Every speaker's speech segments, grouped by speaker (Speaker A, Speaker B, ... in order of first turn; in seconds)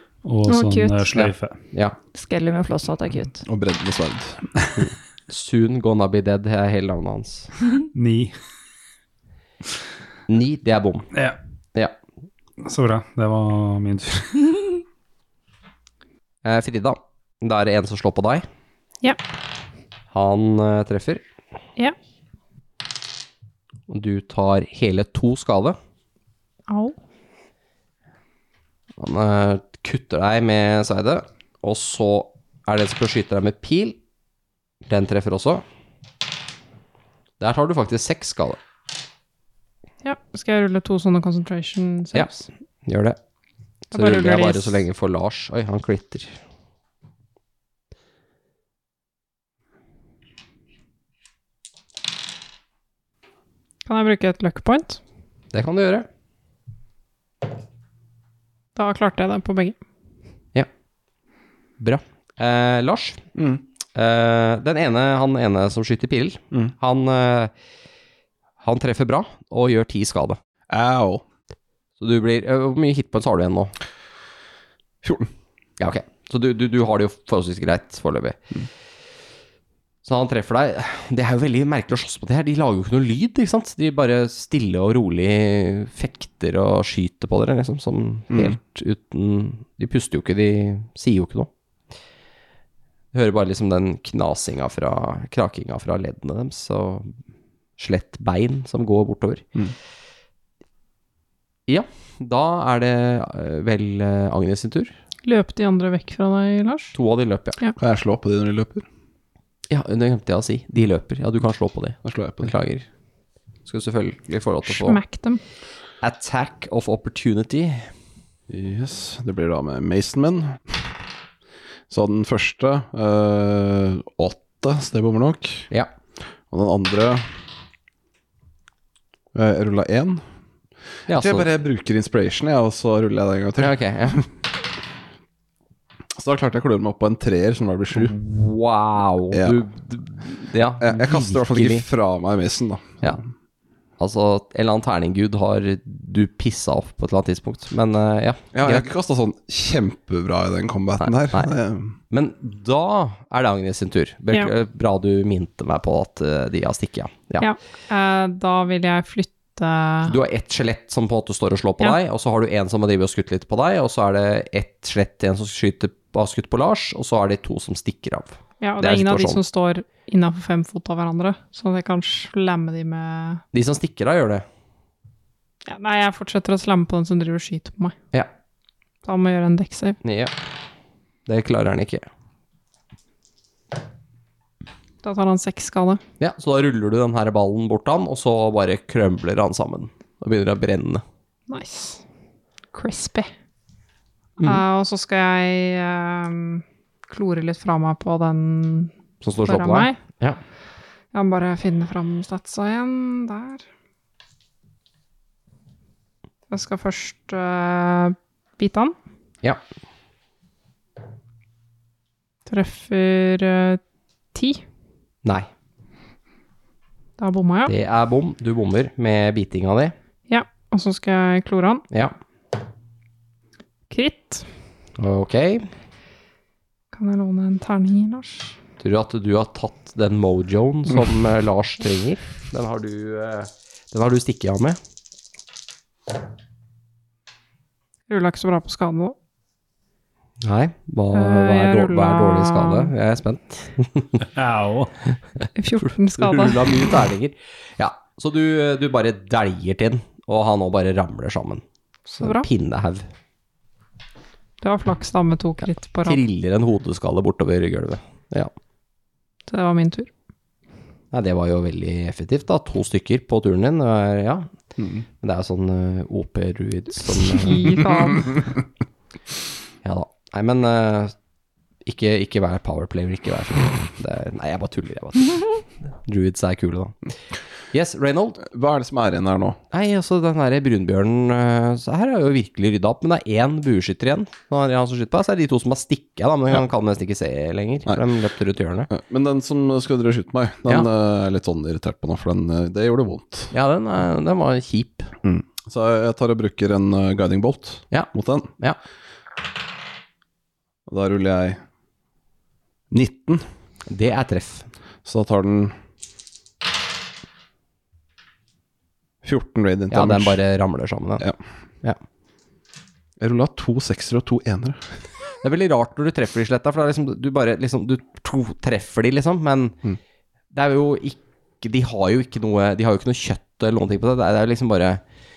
Speaker A: 0.2-1.6, 7.9-8.3, 12.6-14.8, 244.3-244.9
Speaker B: 0.5-1.0, 2.1-3.4, 267.7-268.4
Speaker C: 1.1-2.0, 4.8-7.5, 10.3-11.1, 16.4-18.5, 20.1-21.2, 23.9-25.8, 29.0-34.0, 34.9-35.6, 37.4-38.6, 42.9-43.2, 43.9-46.4, 55.5-56.1, 61.8-63.2, 64.0-67.5, 68.6-70.4, 72.0-73.7, 75.8-78.4, 80.0-91.5, 93.1-97.1, 97.8-99.5, 101.7-104.9, 106.9-107.6, 109.7-112.9, 113.7-115.0, 116.0-117.9, 131.1-131.5, 133.6-134.3, 137.9-141.8, 144.0-148.9, 151.0-151.5, 152.1-157.5, 160.1-169.4, 173.5-174.4, 180.0-180.3, 181.3-182.1, 186.2-191.0, 199.2-200.4, 217.7-219.9, 225.0-225.7, 228.8-234.8, 240.4-244.2, 245.8-251.6, 252.2-253.1, 255.6-258.5, 261.1-264.5, 265.2-267.8, 269.8-271.1, 271.9-277.1, 277.7-278.4, 279.7-288.9, 293.5-295.1, 297.9-298.8, 303.9-304.7, 309.9-311.3, 315.4-319.8, 320.5-325.0
Speaker D: 3.5-4.5, 63.4-63.6, 70.7-71.2, 75.0-75.3, 88.3-88.6, 107.8-108.8, 112.0-112.5, 118.5-120.9, 121.9-125.7, 126.5-127.4, 129.3-130.2, 131.1-134.3, 136.2-138.1, 139.3-139.6, 140.8-143.2, 148.5-151.9, 278.4-279.6, 288.9-293.5, 295.2-298.5, 300.9-301.6, 302.9-303.4, 305.1-305.8, 309.2-310.4, 313.2-314.8
Speaker E: 26.7-27.0, 40.0-42.5, 43.9-44.8, 53.9-55.0, 58.8-59.8, 105.2-106.9, 114.7-115.4, 157.4-160.2, 168.6-173.4, 175.7-178.0, 179.1-180.0, 185.0-186.0, 191.5-192.0, 192.7-193.3, 194.4-198.9, 199.5-200.0, 201.1-203.7, 206.5-208.9, 212.5-213.8, 214.3-214.6, 217.2-217.7, 220.3-221.8, 223.9-224.5, 226.9-228.6, 238.1-239.2, 241.1-242.9, 245.6-246.8, 252.1-252.5, 254.6-256.2, 259.5-260.1, 267.3-268.3